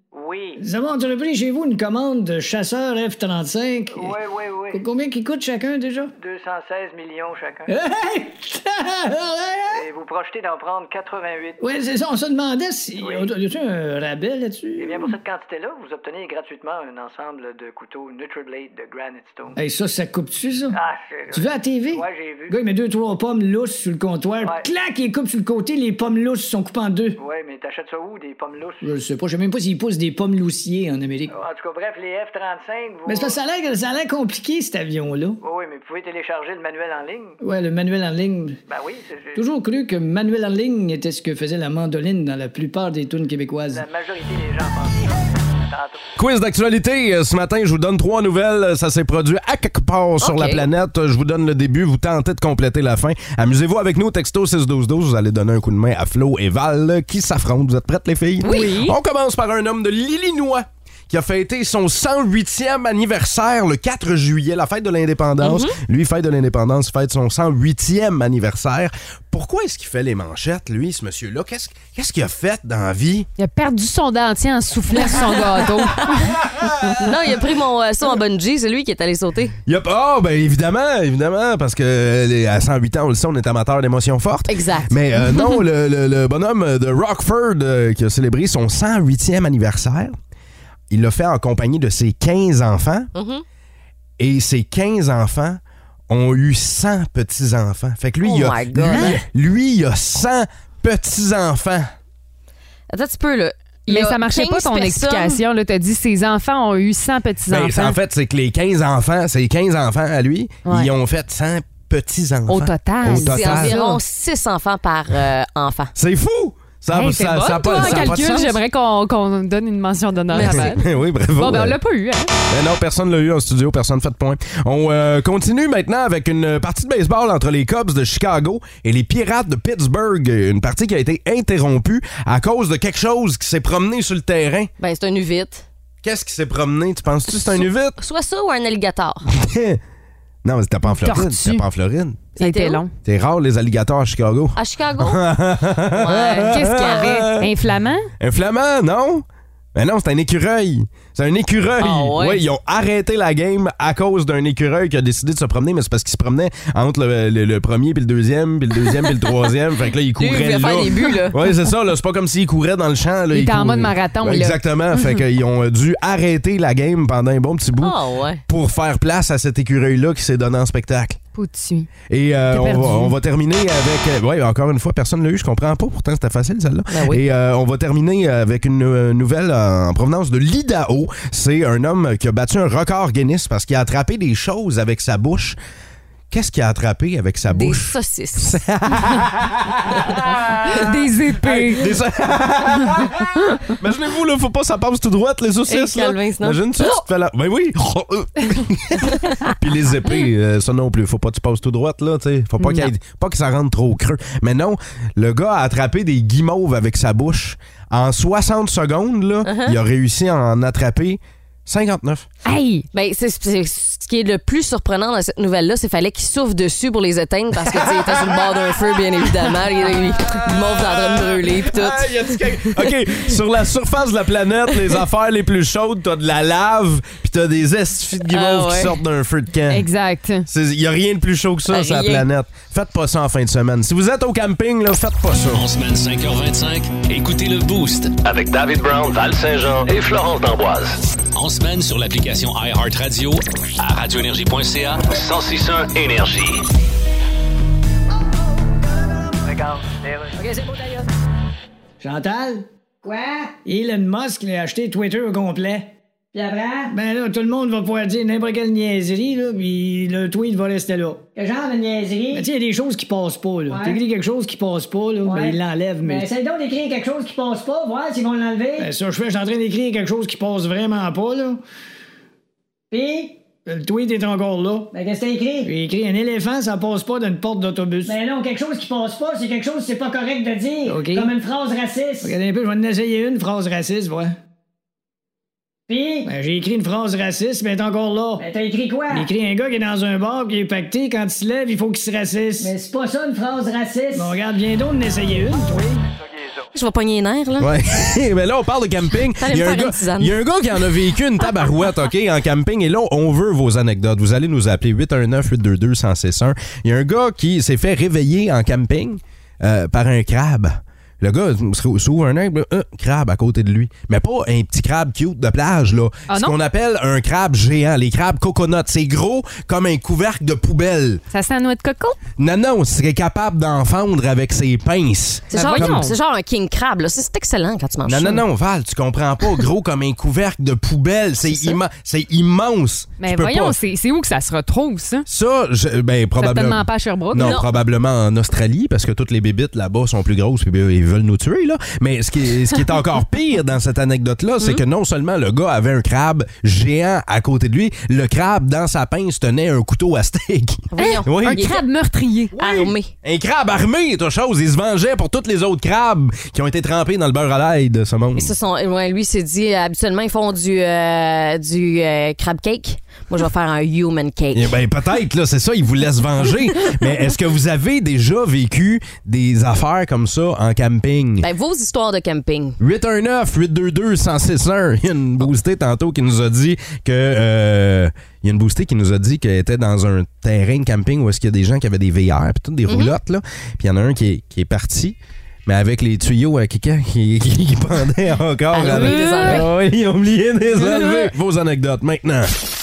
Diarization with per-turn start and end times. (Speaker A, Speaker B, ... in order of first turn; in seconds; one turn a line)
Speaker A: 0.1-0.6
Speaker B: 0.6-4.2
Speaker A: 3.9-4.8
Speaker B: 4.7-6.1
Speaker A: 6.2-7.7
Speaker B: 7.7-9.8
Speaker A: 9.7-11.6
Speaker B: 11.6-15.1
Speaker A: 13.0-13.3
Speaker A: 14.8-19.6
Speaker B: 19.6-20.8
Speaker A: 20.7-22.6
Speaker B: 21.3-27.2
Speaker A: 24.4-24.7
Speaker A: 27.2-28.9
Speaker B: 28.8-31.3
Speaker A: 31.3-33.4
Speaker B: 33.1-35.4
Speaker A: 35.4-37.4
Speaker B: 37.4-38.6
Speaker A: 38.7-39.4
Speaker B: 39.4-43.9
Speaker A: 43.7-46.0
Speaker C: 46.2-73.3
Speaker D: 50.2-50.7
Speaker D: 58.4-58.8
Speaker E: 58.4-58.9
Speaker D: 65.4-65.8
Speaker E: 73.4-76.4
Speaker C: 76.4-77.1
Speaker D: 77.0-79.6
Speaker C: 79.7-90.2
Speaker D: 84.5-85.4
Speaker C: 90.9-93.1
Speaker D: 93.1-93.4
Speaker C: 94.2-101.9
Speaker D: 98.2-99.2
Speaker D: 102.9-105.4
Speaker E: 103.9-108.0
Speaker C: 107.5-113.8
Speaker E: 110.7-110.9
Speaker E: 112.5-114.0
Speaker D: 113.2-115.9
Speaker C: 116.0-118.6
Speaker E: 116.9-120.8
Speaker D: 117.7-118.2
Speaker D: 120.3-120.8
Speaker C: 120.4-121.8
Speaker E: 121.4-122.3
Speaker C: 122.5-134.7
Speaker D: 134.8-135.7
Speaker C: 136.0-138.0
Speaker D: 137.3-139.2
Speaker C: 139.3-139.8
Speaker C: 140.4-142.3
Speaker E: 140.9-141.6
Speaker D: 142.4-142.8
Speaker E: 142.4-142.9
Speaker C: 143.0-147.5
Speaker D: 144.6-145.2
Speaker D: 145.9-147.1
Speaker E: 146.5-148.1
Speaker C: 148.2-171.2
Speaker D: 151.8-152.4
Speaker D: 160.2-161.4
Speaker E: 163.3-165.2
Speaker D: 167.8-168.4
Speaker E: 171.3-171.9
Speaker C: 172.1-185.6
Speaker E: 172.5-173.2
Speaker D: 176.9-177.2
Speaker C: 186.3-212.3
Speaker D: 187.5-188.6
Speaker E: 190.7-191.9
Speaker D: 195.7-197.0
Speaker D: 199.1-199.5
Speaker E: 202.6-202.9
Speaker D: 209.4-209.8
Speaker E: 212.5-212.9
Speaker D: 212.9-222.9
Speaker C: 217.7-218.8
Speaker C: 220.3-229.9
Speaker D: 228.3-229.0
Speaker E: 229.7-230.5
Speaker C: 230.5-235.6
Speaker D: 231.7-232.3
Speaker F: 235.5-238.1
Speaker G: 238.2-241.0
Speaker F: 241.3-245.1
Speaker G: 245.0-246.6
Speaker A: 249.4-250.7
Speaker H: 250.4-250.8
Speaker B: 252.0-252.7
Speaker H: 253.0-253.6
Speaker B: 253.6-255.9
Speaker H: 256.3-257.0
Speaker B: 256.9-261.2
Speaker H: 261.4-262.5
Speaker B: 262.3-266.3
Speaker H: 263.7-264.1
Speaker H: 265.2-268.9
Speaker B: 268.8-271.6
Speaker H: 272.9-273.4
Speaker B: 273.7-274.9
Speaker H: 274.9-275.8
Speaker B: 275.6-278.2
Speaker H: 278.0-282.4
Speaker B: 280.9-281.4
Speaker B: 282.2-284.4
Speaker H: 285.9-286.3
Speaker B: 286.2-288.5
Speaker H: 288.4-289.3
Speaker B: 289.1-292.8
Speaker H: 292.6-294.4
Speaker B: 294.1-296.0
Speaker A: 295.8-296.7
Speaker D: 296.7-297.7
Speaker C: 297.6-321.2
Speaker D: 299.4-300.4
Speaker E: 316.3-316.6
Speaker E: 321.3-322.2
Speaker C: 322.4-326.1
Speaker D: 325.5-328.4
Speaker E: 325.5-326.1
Speaker C: 328.1-333.8
Speaker E: 333.2-335.3
Speaker C: 335.3-351.8
Speaker E: 336.4-337.6
Speaker D: 337.4-337.7
Speaker D: 350.9-351.8
Speaker E: 351.0-352.6
Speaker C: 352.6-358.5
Speaker D: 352.6-353.1
Speaker D: 358.4-364.7
Speaker C: 364.5-371.5
Speaker D: 371.4-372.8
Speaker C: 372.8-392.6
Speaker D: 382.9-383.1
Speaker D: 388.7-389.7
Speaker E: 388.9-389.7
Speaker E: 390.8-391.3